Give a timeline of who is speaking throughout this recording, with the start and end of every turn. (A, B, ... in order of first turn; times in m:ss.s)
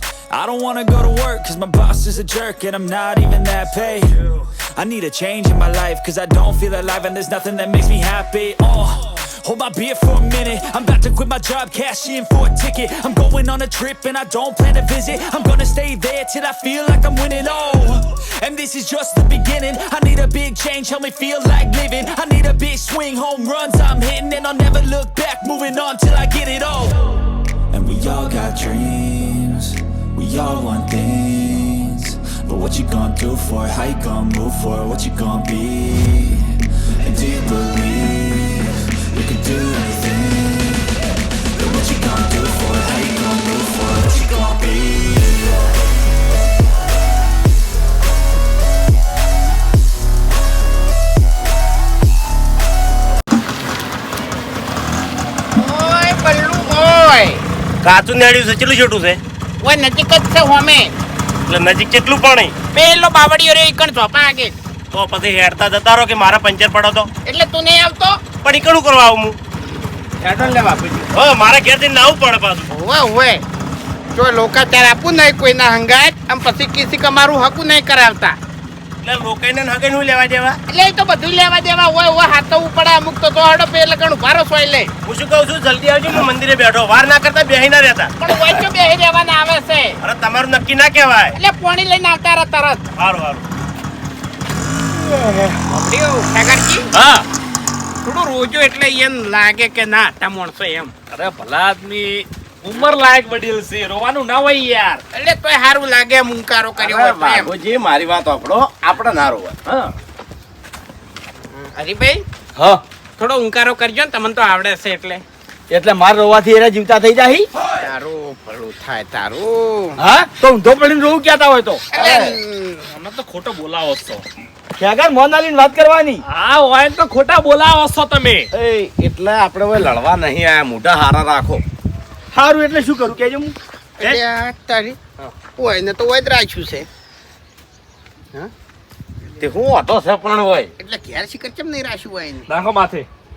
0:00.3-0:41.0 A
0:41.5-0:45.7 A
0:55.5-0:57.4 B
0:57.8-0:59.2 C
0:59.6-1:00.9 B
1:01.5-1:02.6 C
1:02.7-1:04.5 B
1:04.9-1:07.1 C
1:07.3-1:08.2 B
1:08.4-1:09.4 C
1:10.2-1:12.7 C
1:12.7-1:13.4 B
1:14.2-1:18.4 B
1:19.0-1:20.6 C
1:20.7-1:24.9 B
1:25.0-1:28.6 C
1:28.2-1:30.0 B
1:30.0-1:31.4 C
1:31.4-1:32.9 B
1:33.0-1:33.5 C
1:35.7-1:36.9 B
1:36.9-1:37.2 D
1:38.0-1:40.9 B
1:41.1-1:45.0 D
1:45.1-1:47.5 B
1:46.8-1:49.6 C
1:49.7-1:49.9 D
1:51.6-1:52.2 B
1:53.2-1:55.2 B
1:55.7-1:57.5 E
1:57.8-2:00.0 B
2:00.0-2:01.8 E
2:01.9-2:02.8 B
2:01.9-2:02.4 C
2:02.9-2:04.2 D
2:04.8-2:06.2 E
2:06.3-2:08.5 D
2:08.5-2:11.6 C
2:12.3-2:13.5 E
2:14.0-2:16.9 B
2:19.4-2:20.7 C
2:20.8-2:22.5 B
2:22.5-2:23.1 D